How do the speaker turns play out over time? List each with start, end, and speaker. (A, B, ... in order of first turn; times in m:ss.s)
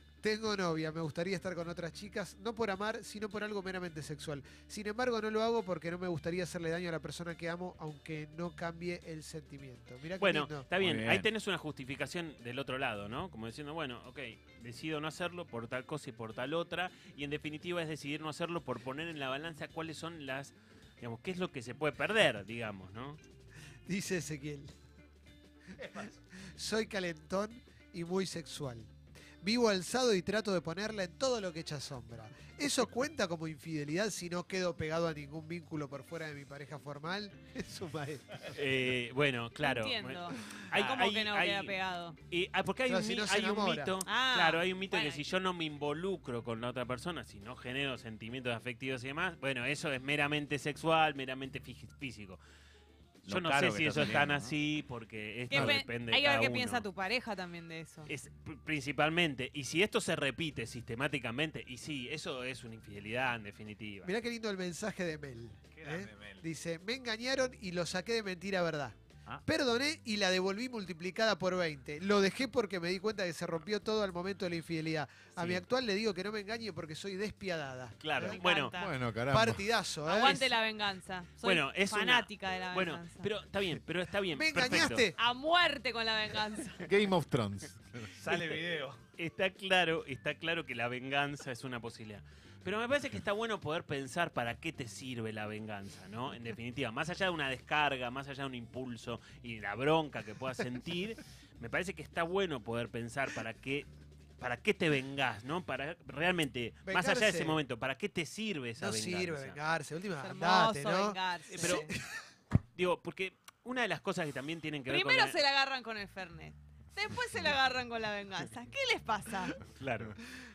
0:00.2-0:10.7 A
0:10.2-0:23.2 B
0:10.8-0:11.3 C
0:23.9-0:24.7 A
0:25.8-0:26.1 C
0:26.4-0:28.9 A
0:29.4-0:38.5 A
0:38.5-0:41.8 B
0:39.6-0:42.2 D
0:42.3-0:52.4 B
0:42.9-0:43.9 A
0:44.1-0:45.2 D
0:53.2-0:54.5 C
0:53.3-0:56.8 B
0:55.5-0:58.1 D
0:58.1-1:04.1 B
1:04.0-1:18.4 A
1:05.7-1:06.4 C
1:15.4-1:15.6 B
1:18.0-1:18.7 B
1:18.2-1:18.9 D
1:18.8-1:19.7 E
1:19.3-1:20.5 A
1:20.1-1:23.3 D
1:21.4-1:25.1 B
1:24.4-1:25.2 A
1:25.2-1:26.9 D
1:26.8-1:28.1 E
1:28.1-1:29.0 C
1:29.2-1:43.9 B
1:44.4-1:49.6 B
1:46.9-1:47.6 A
1:48.8-1:52.2 A
1:50.2-1:51.8 D
1:51.6-1:51.9 B
1:52.8-1:55.4 B
1:54.9-1:59.6 D
1:59.7-2:00.2 B